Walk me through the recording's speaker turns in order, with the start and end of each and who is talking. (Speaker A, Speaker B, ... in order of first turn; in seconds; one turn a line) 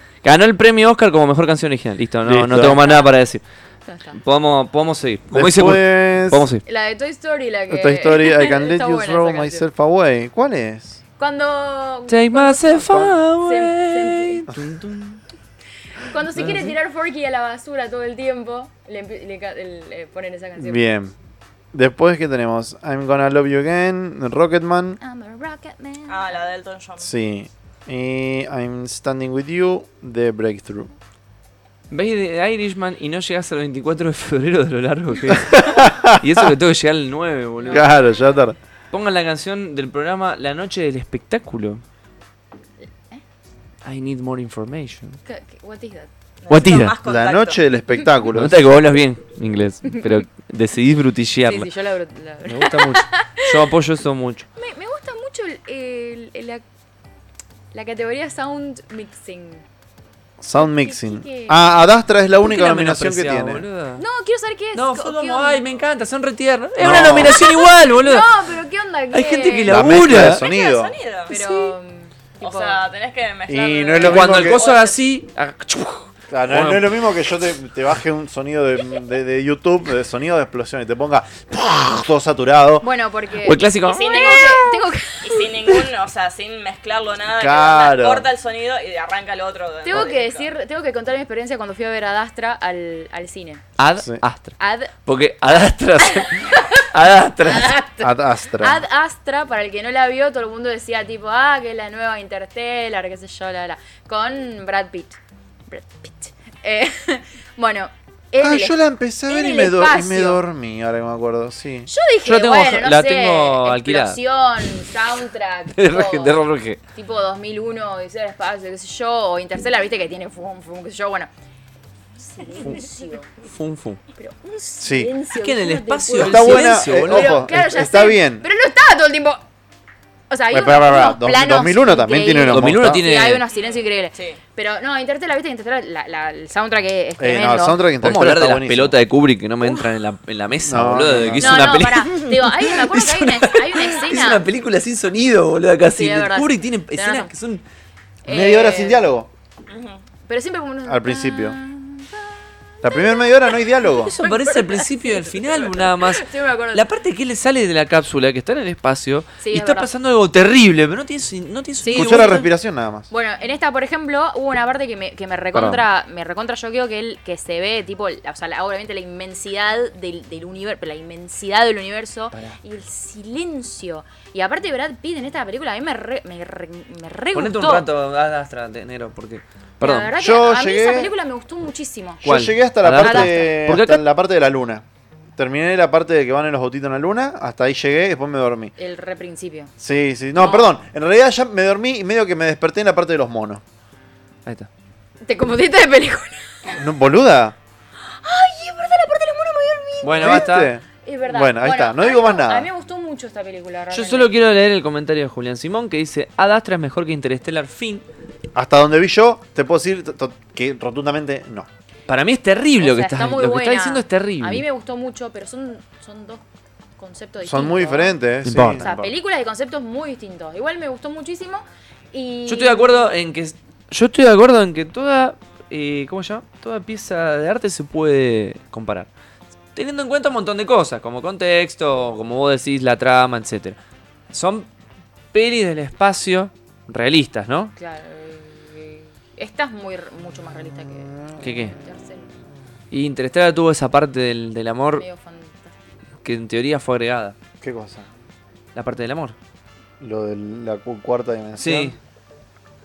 Speaker A: 0.2-3.4
Speaker B: 2.2-2.8
Speaker C: 2.8-3.1
Speaker C: 3.9-4.2
Speaker A: 4.1-6.6
Speaker B: 5.3-6.5
Speaker C: 6.7-9.7
Speaker B: 7.7-11.0
Speaker C: 11.2-14.5
Speaker A: 12.1-15.2
Speaker C: 16.0-20.9
Speaker B: 16.4-16.7
Speaker B: 20.6-21.1
Speaker B: 21.7-25.0
Speaker C: 25.0-26.4
Speaker D: 26.1-27.1
Speaker B: 27.0-30.9
Speaker A: 31.9-37.9
Speaker B: 35.3-36.5
Speaker C: 37.6-37.9
Speaker B: 37.7-38.5
Speaker A: 38.9-41.8
Speaker A: 43.8-45.2
Speaker C: 45.2-46.1
Speaker D: 46.4-47.6
Speaker A: 46.5-46.9
Speaker B: 47.0-48.6
Speaker A: 48.3-51.7
Speaker C: 51.4-53.5
Speaker A: 52.5-54.5
Speaker C: 54.6-56.6
Speaker C: 57.7-59.6
Speaker B: 60.4-63.6
Speaker C: 60.5-61.6
Speaker A: 62.4-64.0
Speaker C: 64.0-65.6
Speaker A: 64.7-68.3
Speaker B: 66.8-67.5
Speaker C: 67.2-70.0
Speaker A: 69.1-70.4
Speaker B: 69.7-70.9
Speaker D: 70.1-71.7
Speaker C: 71.3-72.8
Speaker D: 72.4-75.0
Speaker B: 73.5-74.6
Speaker A: 74.0-77.0
Speaker B: 76.3-82.9
Speaker C: 82.8-85.8
Speaker A: 83.4-84.7
Speaker D: 83.8-90.5
Speaker B: 87.3-88.3
Speaker C: 89.8-93.6
Speaker A: 93.8-97.8
Speaker B: 94.0-94.2
Speaker C: 94.6-94.9
Speaker C: 96.1-96.8
Speaker C: 97.4-105.2
Speaker B: 98.0-98.8
Speaker C: 105.7-110.4
Speaker B: 108.4-111.9
Speaker C: 111.9-121.3
Speaker A: 112.2-114.2
Speaker A: 115.7-116.8
Speaker C: 122.2-123.3
Speaker A: 123.5-124.0
Speaker C: 124.2-129.4
Speaker B: 124.8-125.1
Speaker A: 125.3-127.5
Speaker B: 126.2-128.4
Speaker C: 130.3-137.8
Speaker B: 130.5-133.0
Speaker A: 132.5-133.4
Speaker D: 133.5-134.4
Speaker B: 137.2-138.9
Speaker A: 138.0-147.6
Speaker B: 140.6-141.9
Speaker C: 141.4-144.4
Speaker C: 145.9-147.3
Speaker C: 148.2-149.0
Speaker B: 148.3-149.3
Speaker D: 149.7-150.0
Speaker C: 150.3-156.8
Speaker B: 150.8-151.6
Speaker B: 152.8-154.2
Speaker A: 154.0-162.5
Speaker C: 159.4-159.9
Speaker C: 161.8-162.5
Speaker B: 161.9-163.1
Speaker C: 163.1-177.9
Speaker A: 165.5-165.8
Speaker A: 177.3-180.1
Speaker C: 179.8-182.2
Speaker B: 180.2-181.1
Speaker B: 182.2-184.8
Speaker A: 182.2-184.0
Speaker C: 182.9-183.6
Speaker B: 185.4-188.7
Speaker C: 188.8-189.7
Speaker B: 189.8-193.6
Speaker C: 190.4-190.7
Speaker C: 195.2-196.8
Speaker B: 196.7-197.6
Speaker C: 198.1-204.3
Speaker A: 200.0-200.7
Speaker B: 200.2-202.7
Speaker A: 203.9-208.0
Speaker B: 208.5-211.7
Speaker A: 212.1-214.6
Speaker C: 212.8-216.4
Speaker C: 217.0-218.2
Speaker B: 217.4-219.1
Speaker A: 218.4-219.1
Speaker C: 218.8-223.1
Speaker A: 222.5-229.1
Speaker A: 229.7-233.8
Speaker A: 234.3-234.7
Speaker A: 235.3-237.7
Speaker C: 237.7-242.3
Speaker B: 241.1-241.4
Speaker A: 241.4-241.8
Speaker A: 242.9-245.0
Speaker C: 244.9-245.7
Speaker A: 246.2-247.3
Speaker B: 247.6-248.1
Speaker A: 248.7-249.3
Speaker B: 250.0-251.9
Speaker A: 251.6-251.9